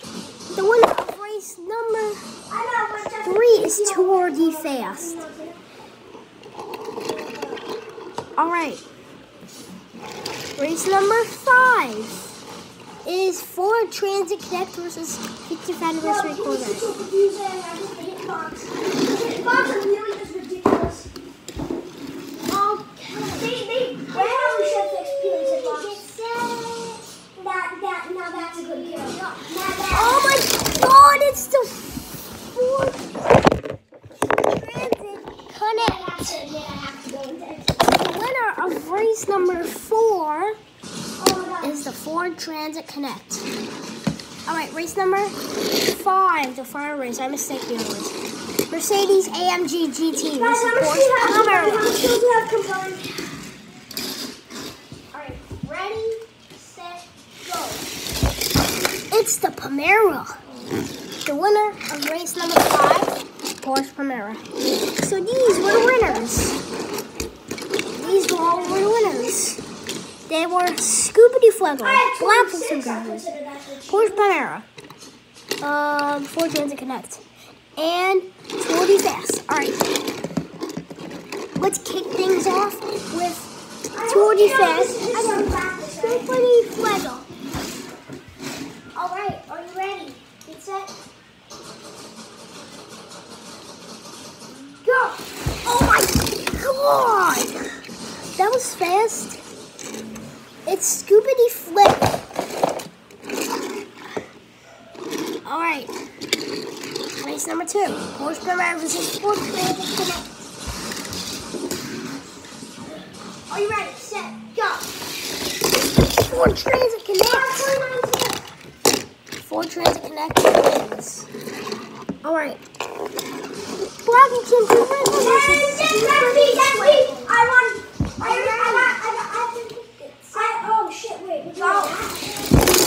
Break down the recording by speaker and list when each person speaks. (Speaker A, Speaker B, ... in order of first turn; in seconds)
Speaker A: 0.5-2.2, 3.2-5.2, 8.4-8.8, 10.6-12.3, 13.0-16.9, 22.5-23.5, 24.1-27.0, 28.3-31.8, 32.5-33.2, 34.5-36.1, 37.9-40.6, 41.6-43.5, 44.5-48.2, 48.7-51.9, 59.1-60.4, 61.2-64.4, 65.0-66.6, 68.0-69.6, 70.3-73.2, 73.9-74.7, 75.6-77.2, 77.8-79.8, 81.6-83.5, 84.1-87.2, 95.7-97.6, 98.3-99.4, 100.7-102.1, 105.5-105.9, 107.2-110.5, 116.1-117.7, 119.4-121.3, 122.2-122.6, 123.8-127.4, 128.2-129.0, 129.9-130.4, 131.6-132.0
Speaker B: 2.5-5.6, 7.0-7.6, 16.0-21.1, 23.2-26.0, 27.4-30.5, 35.7-37.9, 41.2-41.8, 50.2-53.2, 55.1-57.8, 65.4-66.3, 68.0-69.4, 71.8-74.5, 83.9-86.3, 89.0-90.9, 94.8-95.2, 113.5-114.8, 117.2-118.4, 125.0-132.6